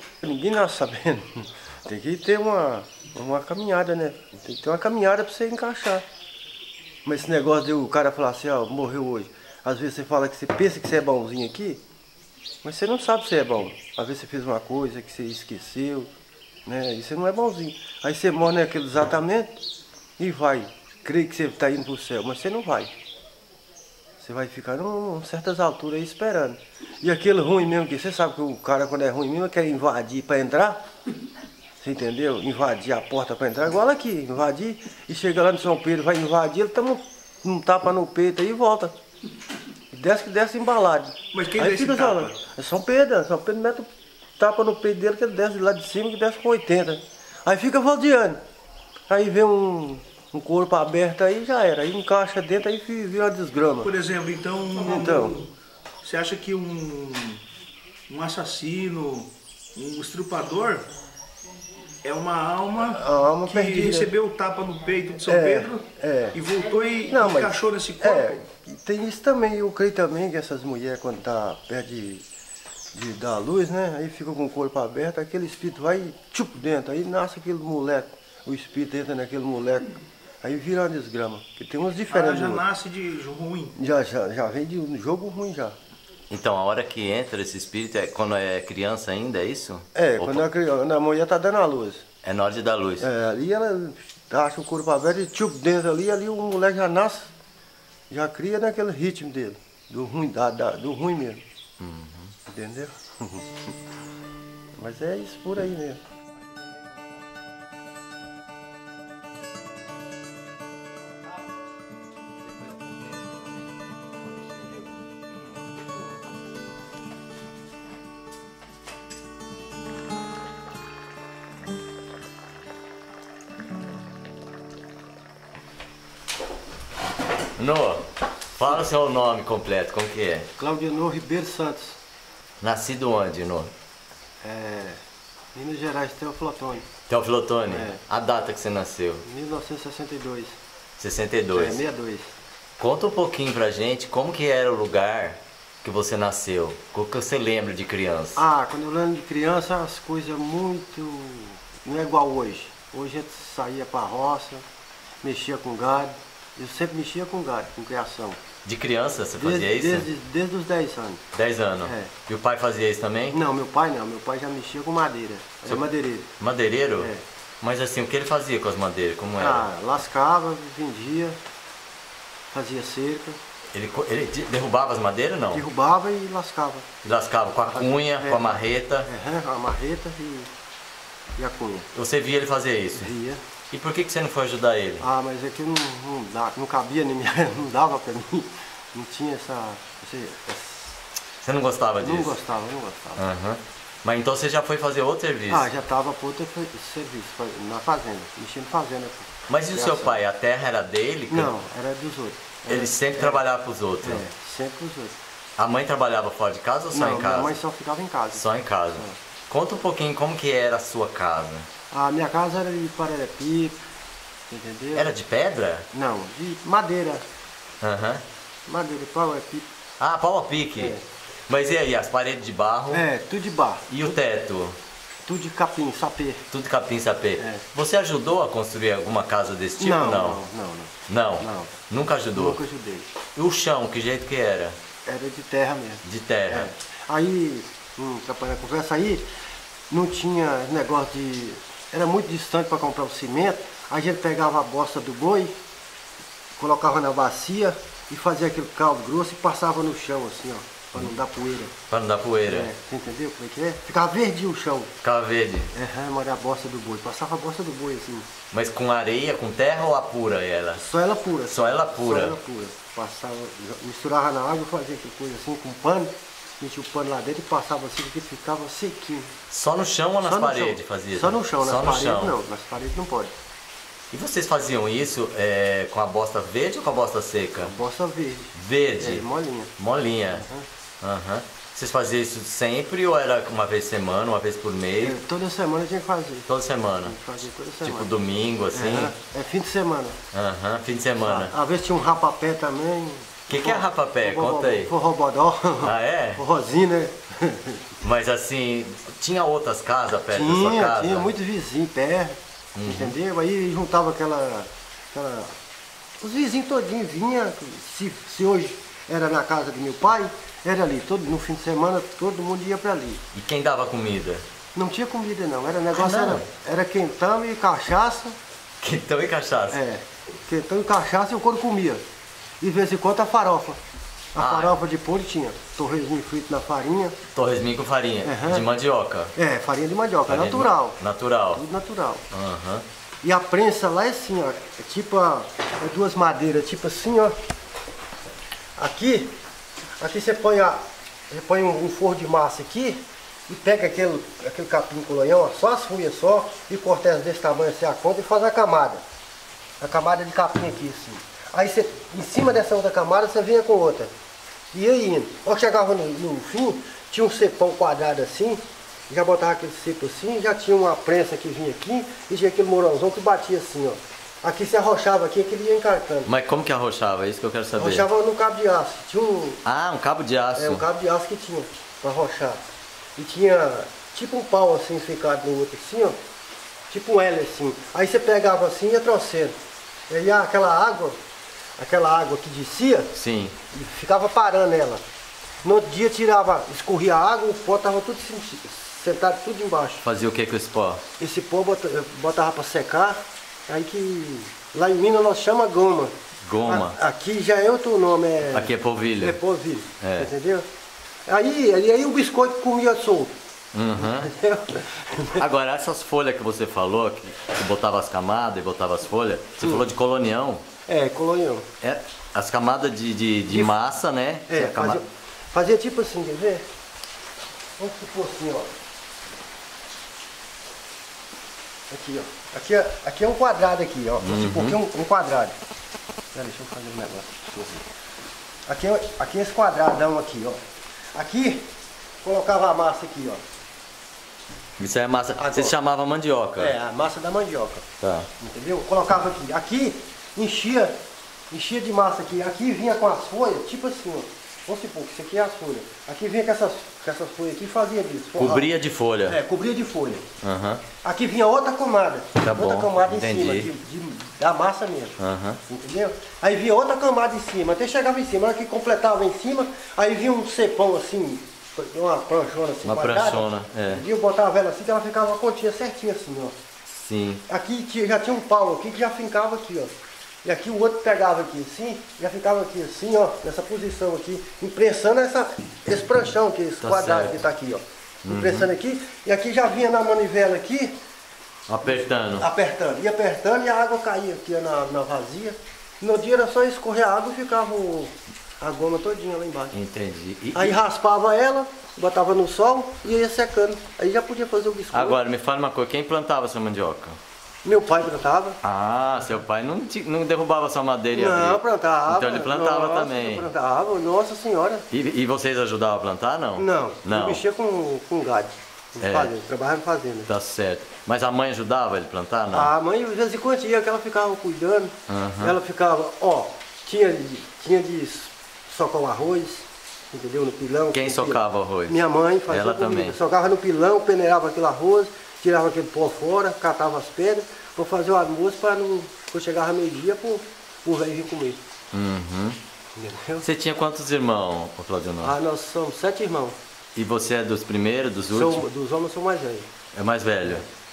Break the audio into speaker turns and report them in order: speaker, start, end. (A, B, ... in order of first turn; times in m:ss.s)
0:00.2-0:06.0 A
0:07.0-0:11.8 A
0:12.6-0:16.1 A
0:16.6-0:19.6 A
0:20.2-0:22.9 A
0:24.2-0:30.8 A
0:31.8-0:38.9 A
0:39.9-0:43.9 A
0:41.3-0:42.3 B
0:44.4-0:48.4 A
0:49.1-0:53.9 A
0:53.8-0:55.4 B
0:54.8-0:55.4 A
0:56.0-0:57.4 B
0:58.1-1:00.8 B
1:02.0-1:08.4 B
1:02.9-1:04.1 A
1:05.2-1:06.4 A
1:07.1-1:12.2 A
1:12.9-1:22.6 A
1:22.1-1:23.7 B
1:23.8-1:25.8 A
1:26.3-1:30.4 C
1:29.9-1:32.0 A
1:32.2-1:33.1 C
1:33.0-1:37.3 A
1:38.1-1:41.4 A
1:41.8-1:42.3 C
1:42.4-1:43.6 A
1:44.8-1:46.0 A
2:07.6-2:10.5 C
2:10.6-2:12.0 A
2:12.6-2:13.7 C
2:14.4-2:15.0 A
2:15.5-2:16.8 A
2:17.1-2:19.2 C
2:17.7-2:18.0 A
2:19.2-2:20.6 A
2:21.0-2:21.8 C
2:21.5-2:22.4 A
2:22.8-2:28.4 C
2:28.4-2:34.6 A
2:35.2-2:38.4 A
2:38.6-2:40.1 C
2:39.4-2:41.2 A
2:41.3-2:43.4 C
2:41.8-2:42.1 A
2:43.3-2:46.3 A
2:46.4-2:49.7 C
2:47.0-2:47.2 A
2:49.4-2:51.4 A
2:52.5-2:53.4 A
2:53.7-2:55.6 C
2:55.5-2:56.9 A
2:57.0-2:59.1 C
2:57.7-3:00.5 A
3:01.4-3:01.9 A
3:01.9-3:03.1 C
3:03.0-3:03.4 A
3:03.7-3:05.0 C
3:05.0-3:11.0 A
3:11.4-3:12.4 C
3:12.0-3:13.3 A
3:13.2-3:15.7 C
3:15.5-3:20.2 A
3:19.5-3:21.5 C
3:21.3-3:23.4 A
3:22.7-3:24.2 C
3:24.0-3:25.2 A
3:25.6-3:27.6 C
3:26.9-3:29.2 A
3:28.3-3:31.7 C
3:31.9-3:33.8 A
3:34.5-3:35.1 A
3:34.9-3:35.9 C
3:35.9-3:37.2 A
3:37.8-3:38.2 C
3:38.7-3:39.7 A
3:40.0-3:41.0 C
3:40.8-3:41.0 A
3:41.5-3:43.1 C
3:42.9-3:43.9 A
3:43.9-3:44.8 C
3:45.2-3:46.5 A
3:46.5-3:50.4 C
3:47.4-3:47.6 A
3:49.8-3:51.7 A
3:51.1-3:52.6 C
3:52.3-3:53.1 A
3:53.3-3:54.8 C
3:55.0-3:59.2 A
3:56.0-3:56.7 C
3:59.9-4:05.5 A
4:06.6-4:11.7 A
4:11.9-4:12.7 C
4:12.4-4:14.9 A
4:15.0-4:15.7 C
4:15.7-4:18.3 A
4:18.5-4:20.8 C
4:20.8-4:29.3 A
4:21.5-4:22.4 C
4:29.5-4:32.3 C
4:30.2-4:33.3 A
4:34.1-4:37.7 C
4:37.6-4:39.7 A
4:38.6-4:39.2 C
4:39.8-4:40.5 C
4:40.3-4:40.6 A
4:41.0-4:45.2 C
4:45.0-4:46.5 A
4:46.5-4:47.2 C
4:47.0-4:48.1 A
4:47.8-4:49.1 C
4:48.7-4:50.2 A
4:50.3-4:51.5 C
4:51.2-4:57.8 A
4:53.5-4:54.9 C
4:55.8-4:56.4 C
4:58.0-5:01.3 C
5:00.3-5:05.6 A
5:02.8-5:03.1 C
5:06.2-5:13.2 A
5:13.3-5:14.4 C
5:14.7-5:18.4 A
5:15.9-5:16.4 C
5:18.8-5:19.8 C
5:19.7-5:22.0 A
5:22.6-5:23.8 A
5:24.3-5:27.2 A
5:24.4-5:24.8 C
5:27.3-5:29.3 C
5:28.2-5:28.6 A
5:29.4-5:31.0 A
5:30.3-5:31.6 C
5:31.5-5:32.2 A
5:32.3-5:32.8 C
5:33.2-5:37.4 A
5:38.8-5:39.3 A
5:40.0-5:49.0 A
5:49.8-5:54.1 A
5:54.7-6:06.3 A
6:06.2-6:08.1 C
6:07.8-6:09.6 A
6:09.6-6:10.8 C
6:10.6-6:12.6 A
6:13.2-6:16.2 A
6:16.9-6:19.5 A
6:20.1-6:21.2 A
6:21.8-6:23.1 A
6:23.1-6:23.6 C
6:23.7-6:25.0 A
6:25.6-6:30.0 A
6:30.0-6:31.0 C
6:31.2-6:36.1 A
6:36.4-6:37.0 C
6:36.6-6:40.6 A
6:38.5-6:39.4 C
6:40.0-6:40.3 C
6:41.3-6:43.3 A
6:43.7-6:44.3 C
6:44.0-6:45.4 A
6:45.3-6:50.6 C
6:49.6-6:49.8 A
6:50.9-6:51.7 A
6:51.8-6:55.0 C
6:53.5-6:53.8 A
6:54.5-6:56.7 A
6:57.8-6:58.7 A
7:01.9-7:05.5 A
7:04.2-7:04.8 C
7:06.3-7:07.8 A
7:08.7-7:10.6 A
7:11.1-7:11.7 A
7:12.2-7:13.4 A
7:14.8-7:16.7 C
7:15.4-7:15.7 A
7:16.6-7:17.8 A
7:18.0-7:18.3 C
7:18.4-7:21.0 A
7:21.5-7:28.7 A
7:28.4-7:29.4 C
7:29.2-7:30.2 A
7:30.4-7:30.8 C
7:31.0-7:46.5 A
7:32.4-7:33.7 C
7:35.2-7:35.6 C
7:42.8-7:44.0 C
7:46.9-7:47.4 C
7:47.5-7:49.9 A
7:50.4-8:01.0 A
7:56.8-7:57.4 C
7:58.2-7:58.7 C
8:01.7-8:02.5 C
8:02.4-8:09.7 A
8:09.7-8:10.8 C
8:10.5-8:15.2 A
8:14.9-8:17.2 C
8:17.6-8:18.6 A
8:18.6-8:23.5 C
8:21.1-8:24.8 A
8:24.9-8:27.4 C
8:26.6-8:30.3 A
8:29.0-8:29.3 C
8:30.3-8:32.7 C
8:32.5-8:51.6 A
8:35.1-8:35.6 C
8:40.9-8:43.2 C
8:51.9-8:52.6 C
8:53.0-8:53.4 A
8:53.4-8:55.4 C
8:55.2-8:56.6 A
8:56.9-8:58.6 C
8:58.3-8:59.7 A
8:59.9-9:00.6 C